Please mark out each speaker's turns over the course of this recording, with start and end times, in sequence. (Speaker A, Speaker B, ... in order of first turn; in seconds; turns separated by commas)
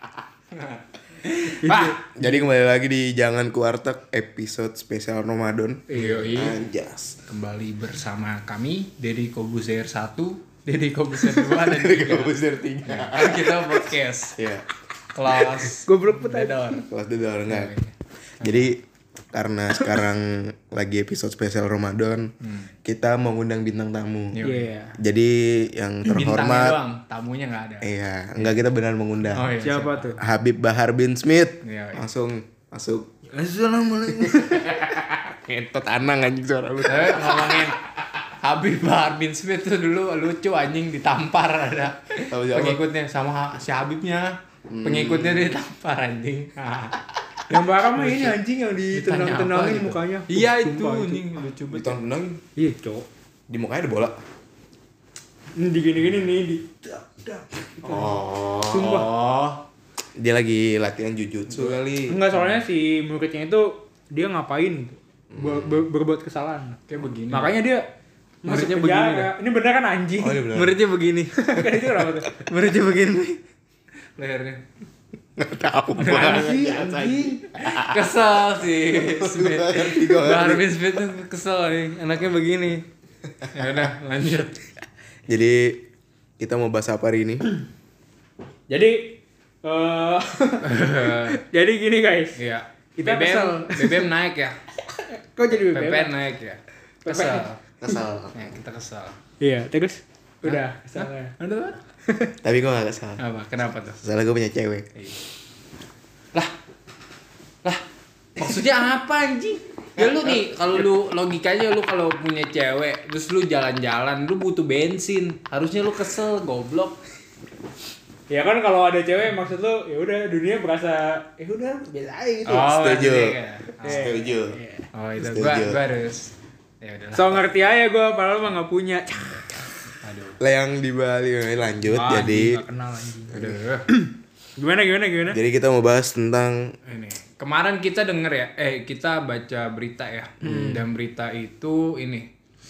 Speaker A: 0.5-2.0, Speaker B: 1.6-2.2, Speaker C: 2.1-7.2, Speaker B: 5.9-6.2, Speaker A: 5.9-6.6, Speaker A: 7.2-12.3, Speaker C: 11.2-14.6, Speaker A: 12.8-14.4, Speaker A: 15.1-16.9, Speaker B: 15.8-16.8, Speaker C: 16.8-17.7, Speaker A: 17.5-18.7, Speaker C: 18.4-18.8, Speaker C: 19.3-22.3, Speaker A: 22.4-22.7, Speaker C: 22.8-24.4, Speaker A: 24.3-24.6, Speaker B: 24.4-25.0, Speaker C: 25.0-26.8, Speaker A: 26.1-28.6, Speaker C: 27.8-29.5, Speaker A: 29.3-30.1, Speaker B: 29.6-30.2, Speaker C: 30.2-33.0, Speaker A: 31.6-32.1, Speaker B: 33.3-34.8, Speaker C: 34.2-37.7, Speaker A: 36.9-37.8, Speaker A: 38.4-47.0, Speaker C: 42.3-42.8, Speaker C: 44.7-45.5, Speaker B: 47.5-51.4, Speaker A: 47.9-48.4, Speaker A: 48.9-52.0, Speaker C: 51.7-52.4, Speaker B: 52.5-53.0, Speaker C: 53.5-54.2, Speaker B: 55.5-59.1, Speaker C: 57.8-59.0, Speaker A: 58.7-59.6, Speaker C: 60.2-62.1, Speaker A: 61.5-62.6, Speaker B: 62.1-67.8, Speaker C: 65.3-65.8, Speaker A: 66.9-67.6, Speaker B: 68.4-70.4, Speaker A: 68.5-69.3, Speaker C: 70.2-70.8, Speaker A: 70.5-71.4, Speaker B: 71.3-72.3, Speaker A: 72.4-73.4, Speaker A: 74.2-74.6, Speaker C: 75.4-78.0, Speaker A: 76.0-76.5, Speaker B: 76.0-77.4, Speaker A: 77.5-82.8, Speaker C: 79.0-80.6, Speaker A: 83.5-84.6, Speaker C: 85.3-85.8, Speaker C: 86.4-87.5, Speaker B: 88.7-92.4, Speaker A: 90.6-91.4, Speaker A: 92.3-94.6, Speaker B: 93.0-94.1, Speaker B: 94.9-96.1, Speaker A: 95.5-97.6, Speaker B: 97.0-98.0, Speaker C: 97.8-98.5, Speaker A: 98.3-99.2, Speaker B: 99.4-101.3, Speaker A: 100.4-101.8, Speaker B: 102.1-102.3, Speaker C: 102.4-103.2, Speaker A: 103.2-104.0, Speaker C: 104.0-104.9, Speaker A: 108.4-117.0, Speaker C: 110.0-110.4, Speaker B: 118.3-122.7, Speaker A: 122.5-124.2, Speaker C: 122.5-124.6, Speaker B: 123.8-124.8, Speaker A: 124.9-127.5, Speaker C: 125.2-125.8, Speaker B: 127.1-129.6, Speaker A: 130.0-130.4, Speaker C: 130.4-132.6, Speaker B: 131.8-135.4, Speaker C: 133.3-133.6, Speaker A: 133.3-133.8, Speaker C: 135.3-136.7, Speaker A: 136.8-142.3, Speaker B: 140.4-140.8, Speaker C: 140.4-140.8